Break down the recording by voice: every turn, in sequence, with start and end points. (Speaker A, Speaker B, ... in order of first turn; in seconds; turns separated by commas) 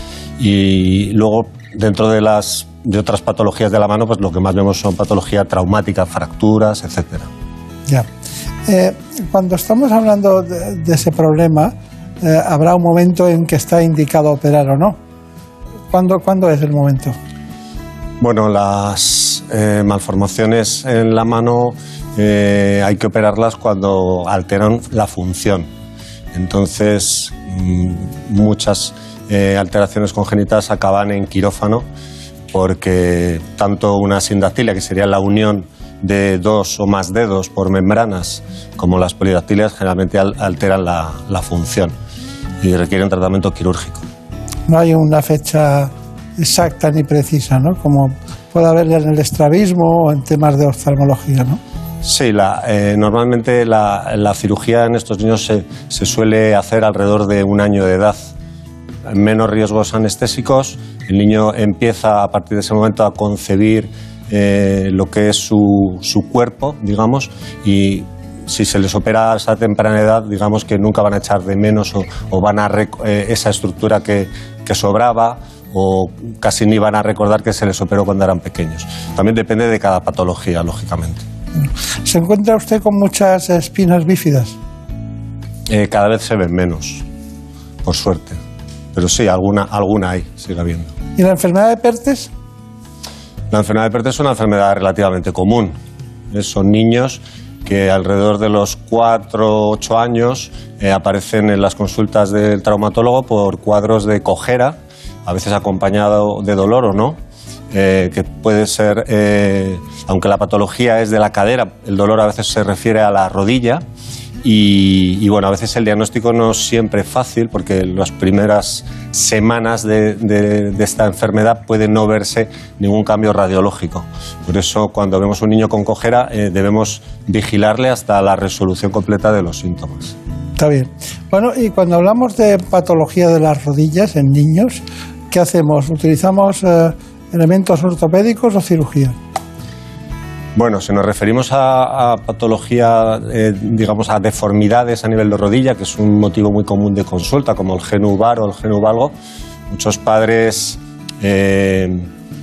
Speaker A: 0.4-7.3, Speaker B: 8.7-15.0, Speaker B: 15.9-17.2, Speaker A: 18.2-25.7, Speaker A: 26.3-31.9, Speaker A: 32.5-41.9, Speaker A: 42.6-44.0, Speaker B: 44.7-51.6, Speaker A: 52.0-58.3, Speaker A: 59.1-81.2, Speaker B: 81.6-84.6, Speaker A: 85.7-87.0, Speaker A: 87.8-88.4, Speaker A: 88.9-90.9, Speaker B: 91.2-92.3, Speaker A: 93.5-95.8, Speaker A: 96.3-107.2, Speaker A: 107.7-113.8, Speaker A: 114.4-130.1, Speaker B: 130.6-139.2, Speaker A: 140.6-149.1, Speaker A: 149.7-152.1